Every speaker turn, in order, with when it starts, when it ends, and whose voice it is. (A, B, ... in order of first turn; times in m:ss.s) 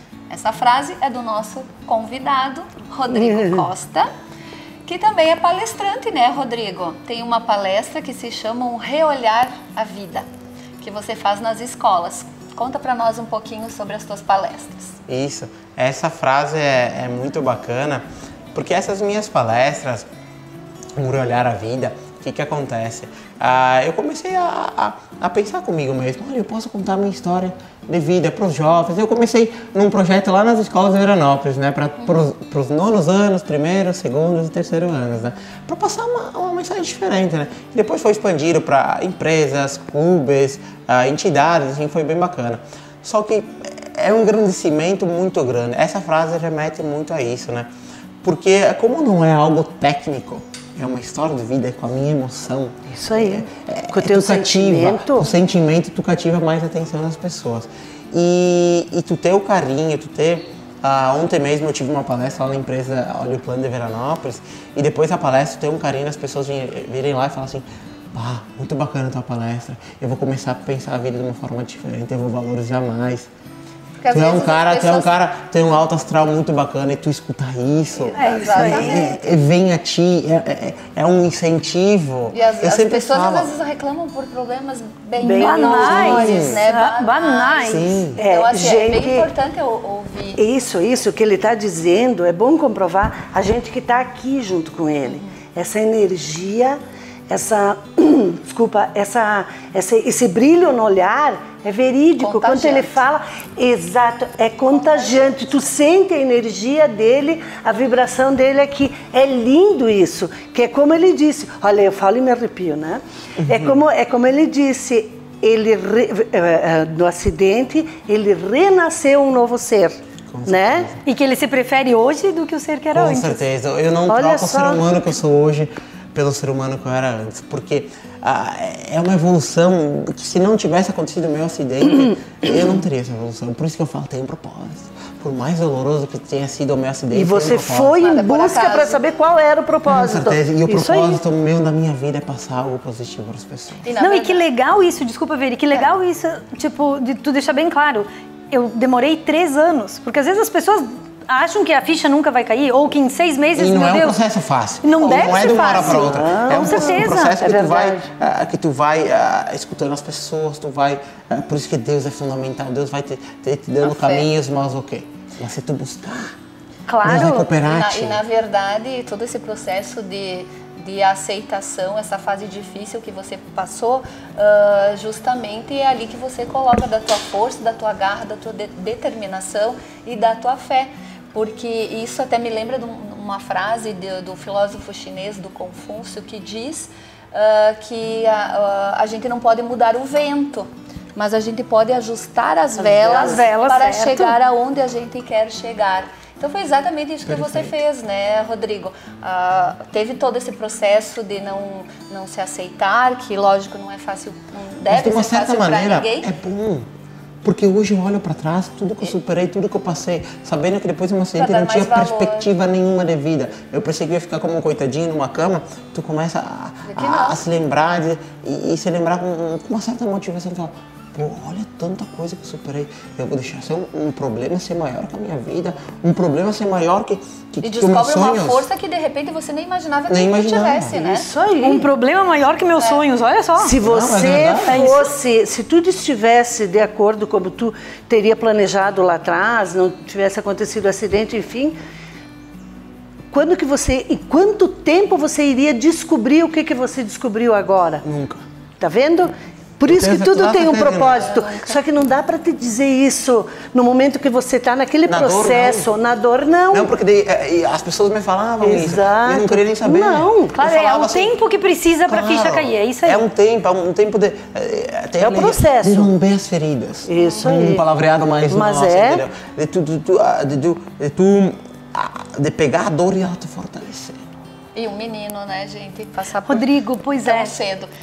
0:00.3-0:04.1 A
0:04.8-0:10.2 A
0:10.8-0:15.0 A
0:15.1-0:20.1 B
0:21.0-0:47.7 B
0:32.0-0:32.2 A
0:48.2-1:13.3 B
0:52.9-0:55.3 C
1:14.0-1:15.1 A
1:14.1-1:23.5 B
1:18.0-1:19.4 A
1:18.1-1:19.2 D
1:22.3-1:30.4 A
1:25.2-1:26.4 C
1:25.3-1:27.8 D
1:25.7-1:26.6 B
1:27.6-1:28.2 B
1:28.2-1:29.3 C
1:30.4-1:36.8 C
1:35.0-1:35.3 A
1:37.3-2:00.9 C
1:42.2-1:43.0 A
1:44.7-1:45.4 A
1:53.4-1:53.8 B
2:00.3-2:01.0 B
2:01.0-2:03.4 D
2:02.9-2:18.0 B
2:04.1-2:04.8 C
2:17.1-2:21.2 C
2:18.0-2:19.0 A
2:19.8-2:23.8 B
2:23.8-2:24.5 A
2:24.0-2:34.2 D
2:33.6-2:46.3 B
2:34.8-2:37.4 D
2:35.1-2:38.0 C
2:43.8-2:44.3 A
2:46.9-2:47.5 D
2:47.0-2:48.2 B
2:47.2-3:26.3 A
3:12.8-3:13.3 C
3:13.0-3:14.3 D
3:17.2-3:17.8 B
3:24.9-3:26.9 B
3:27.4-3:48.6 B
3:31.4-3:32.5 A
3:36.8-3:37.4 A
3:47.6-3:51.3 A
3:50.1-3:51.0 B
3:50.9-3:51.9 C
3:51.6-3:53.7 D
3:52.8-3:53.0 A
3:53.6-4:01.7 C
3:53.8-3:54.9 B
3:54.6-3:55.1 D
4:03.3-4:08.0 C
4:08.0-4:08.4 B
4:08.8-4:16.9 C
4:09.9-4:11.3 B
4:11.1-4:11.8 A
4:15.0-4:15.9 B
4:16.7-4:21.4 B
4:18.6-4:20.6 C
4:20.5-4:23.2 D
4:22.0-4:34.2 B
4:25.2-4:26.1 C
4:27.0-4:27.8 C
4:28.5-4:29.2 C
4:34.7-4:36.7 A
4:36.4-4:37.5 D
4:37.2-4:37.9 A